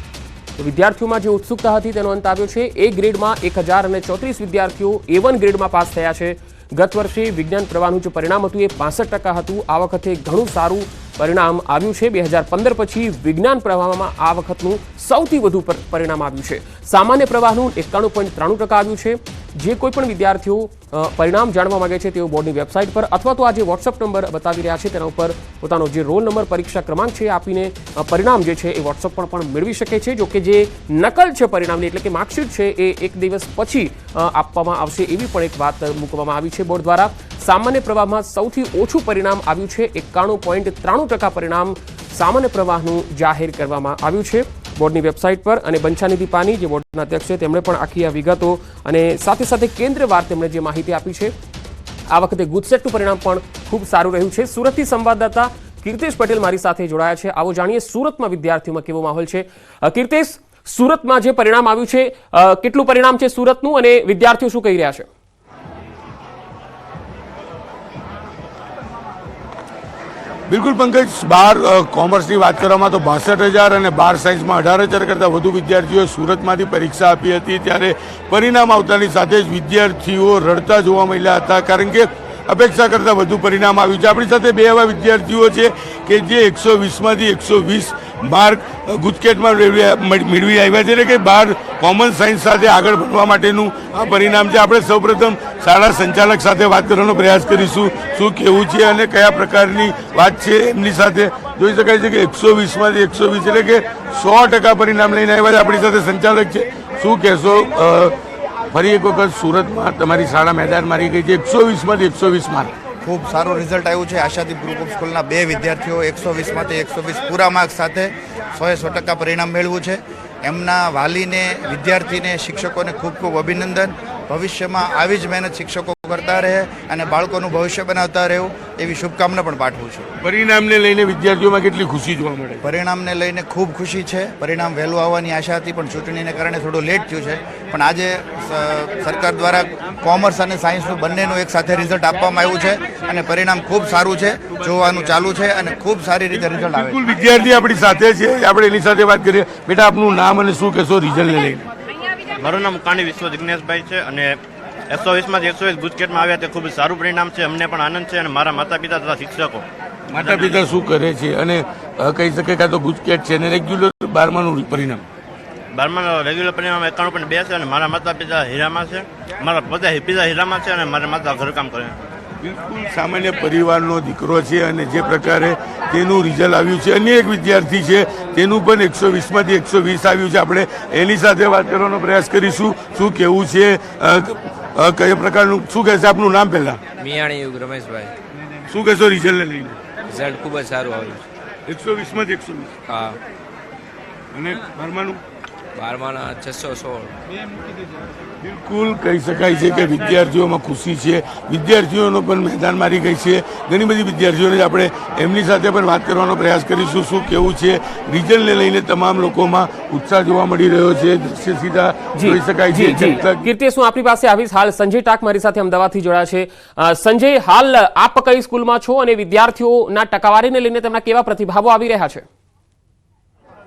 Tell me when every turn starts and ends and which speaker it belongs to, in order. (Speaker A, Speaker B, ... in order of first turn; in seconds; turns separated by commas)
Speaker A: 0.6-51.3, Speaker A: 52.1-65.1, Speaker B: 70.5-108.2, Speaker B: 108.7-112.7, Speaker C: 113.0-130.1, Speaker B: 130.2-132.7, Speaker C: 132.6-147.0, Speaker B: 146.3-151.7, Speaker D: 152.4-154.4, Speaker D: 154.9-159.7, Speaker B: 160.1-165.0, Speaker D: 160.2-160.5, Speaker D: 165.7-172.0, Speaker B: 172.4-186.8, Speaker E: 187.0-188.1, Speaker B: 188.7-189.8, Speaker E: 190.1-191.2, Speaker B: 191.7-192.8, Speaker B: 194.3-195.2, Speaker E: 195.8-197.1, Speaker B: 198.4-213.5, Speaker A: 212.2-222.3